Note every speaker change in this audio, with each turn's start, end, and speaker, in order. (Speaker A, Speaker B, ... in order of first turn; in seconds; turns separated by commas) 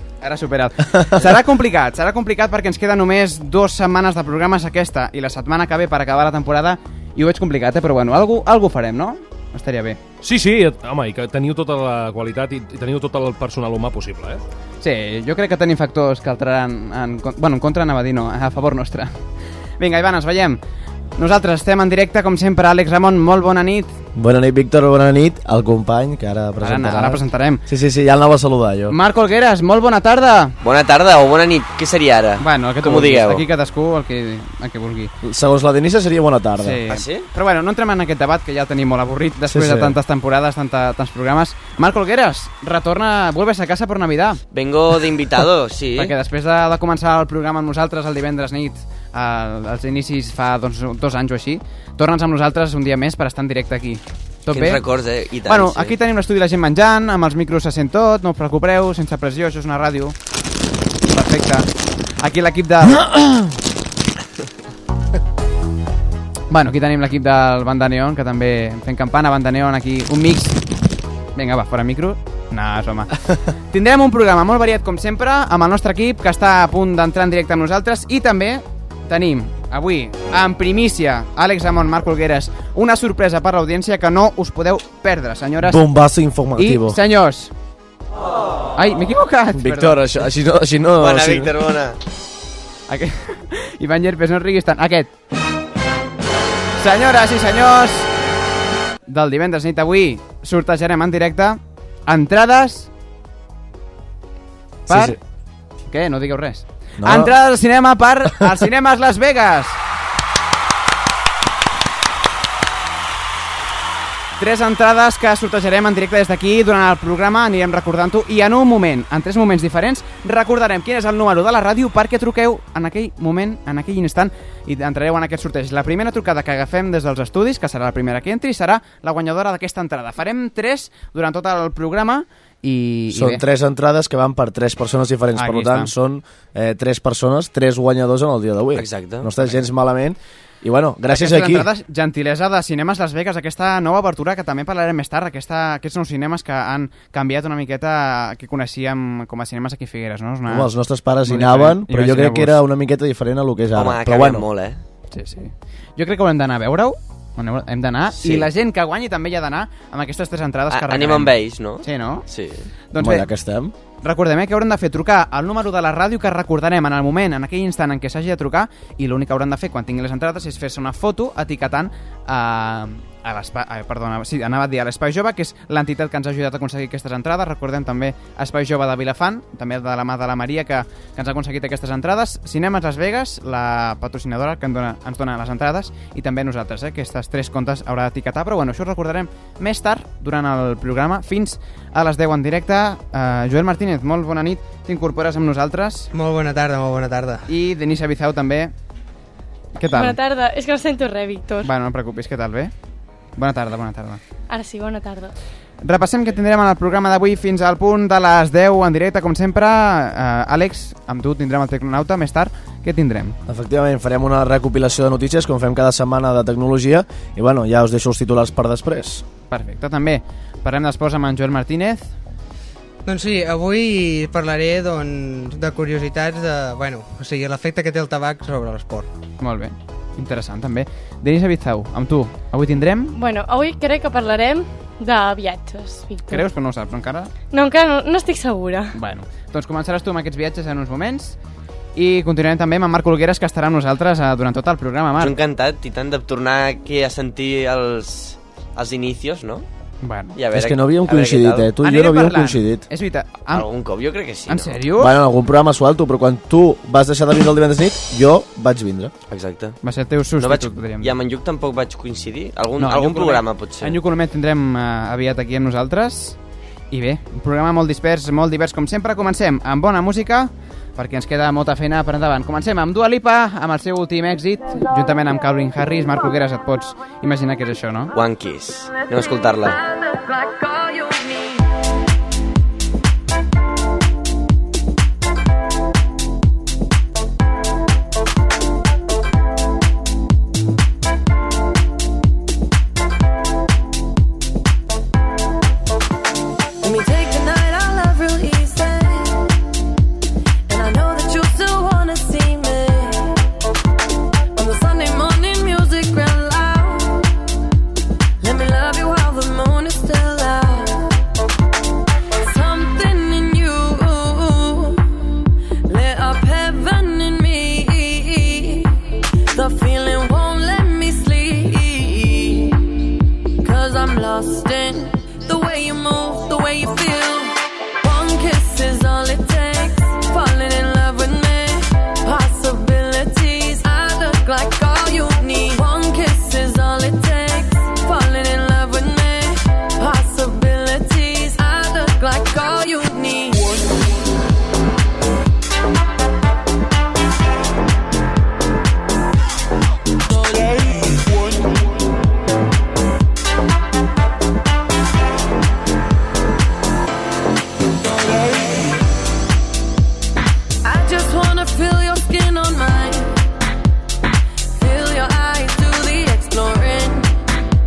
Speaker A: 0.2-10.0, Speaker B: 10.2-14.4, Speaker A: 14.8-19.1, Speaker A: 19.8-20.6, Speaker A: 21.2-23.9, Speaker C: 24.1-28.9, Speaker A: 26.6-27.6, Speaker A: 28.9-30.6, Speaker D: 30.6-33.5, Speaker A: 32.4-35.1, Speaker C: 35.2-36.8, Speaker A: 36.6-44.4, Speaker D: 36.9-37.3, Speaker C: 39.5-40.0, Speaker D: 44.5-46.1, Speaker A: 46.0-54.8, Speaker D: 54.5-56.0, Speaker A: 55.5-60.1, Speaker A: 61.1-61.7, Speaker A: 62.2-63.3, Speaker A: 66.5-70.6, Speaker A: 71.3-73.2, Speaker A: 73.7-85.8, Speaker C: 85.6-87.0, Speaker A: 86.6-87.5, Speaker A: 88.8-90.2, Speaker C: 89.5-91.5, Speaker D: 91.0-92.0, Speaker A: 92.9-95.1, Speaker A: 96.8-98.1, Speaker A: 99.1-102.9, Speaker C: 104.9-105.2, Speaker A: 104.9-105.2, Speaker A: 105.9-109.8, Speaker C: 107.0-107.3, Speaker A: 114.4-133.4, Speaker C: 133.1-141.7, Speaker A: 135.4-135.9, Speaker D: 138.7-139.3, Speaker A: 141.1-150.7, Speaker C: 150.5-154.4, Speaker A: 151.2-152.6, Speaker D: 153.7-154.8, Speaker A: 155.1-162.2, Speaker D: 158.2-158.5, Speaker D: 160.7-162.7, Speaker A: 162.9-163.3, Speaker C: 163.0-163.7, Speaker A: 164.0-196.1, Speaker E: 196.1-197.4, Speaker A: 197.5-198.7, Speaker A: 199.8-200.2, Speaker F: 199.9-201.7, Speaker A: 201.6-202.7, Speaker A: 203.4-204.2, Speaker F: 204.5-205.3, Speaker A: 205.8-213.4, Speaker C: 213.5-219.2, Speaker A: 219.5-222.1, Speaker E: 223.1-229.1, Speaker A: 229.4-233.1, Speaker F: 233.1-236.5, Speaker A: 236.3-237.3, Speaker F: 237.5-239.0, Speaker A: 238.9-241.4, Speaker A: 242.0-245.3, Speaker D: 245.2-249.7, Speaker A: 250.0-250.3, Speaker D: 250.3-251.7, Speaker C: 250.5-252.8, Speaker A: 251.8-253.7, Speaker D: 253.5-254.8, Speaker A: 254.5-255.2, Speaker C: 255.0-259.1, Speaker D: 259.3-259.8, Speaker A: 259.8-261.1, Speaker D: 260.4-264.0, Speaker A: 262.8-266.4, Speaker A: 266.9-278.1, Speaker D: 278.1-279.8, Speaker G: 278.9-281.7, Speaker G: 296.8-299.5, Speaker G: 300.7-303.4, Speaker G: 304.6-307.3, Speaker G: 308.4-311.0, Speaker G: 312.4-315.3, Speaker G: 315.9-319.0, Speaker G: 319.5-323.1, Speaker G: 323.6-343.7, Speaker G: 360.8-363.4, Speaker G: 364.7-367.3